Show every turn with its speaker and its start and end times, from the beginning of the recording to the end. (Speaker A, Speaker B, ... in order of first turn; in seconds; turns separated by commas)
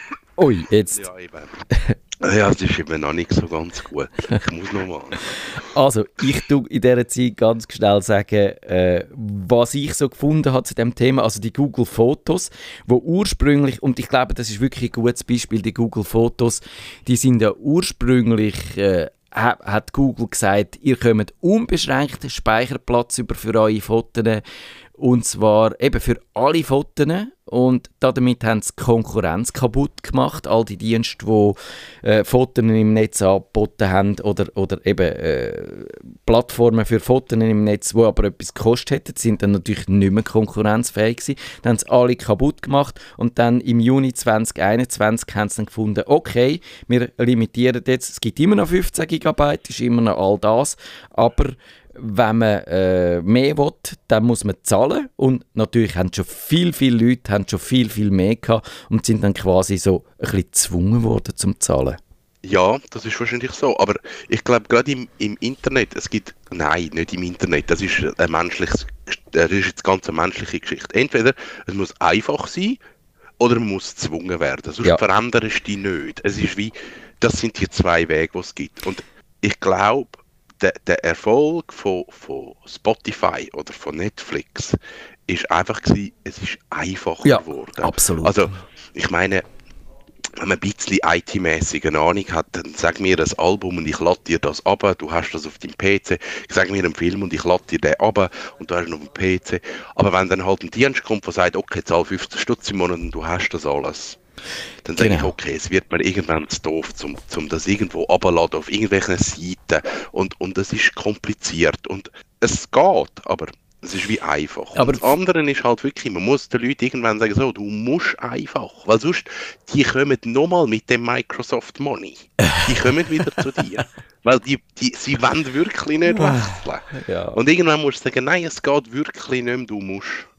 Speaker A: 0.4-1.1, Speaker B: 1.0-1.6, Speaker B: 2.2-5.4, Speaker A: 5.6-24.4, Speaker A: 25.0-62.0, Speaker B: 62.4-72.8, Speaker B: 73.4-89.5, Speaker A: 87.2-88.6, Speaker B: 90.4-104.2, Speaker B: 104.8-130.3, Speaker A: 105.0-105.3, Speaker A: 114.8-115.2, Speaker A: 126.1-127.4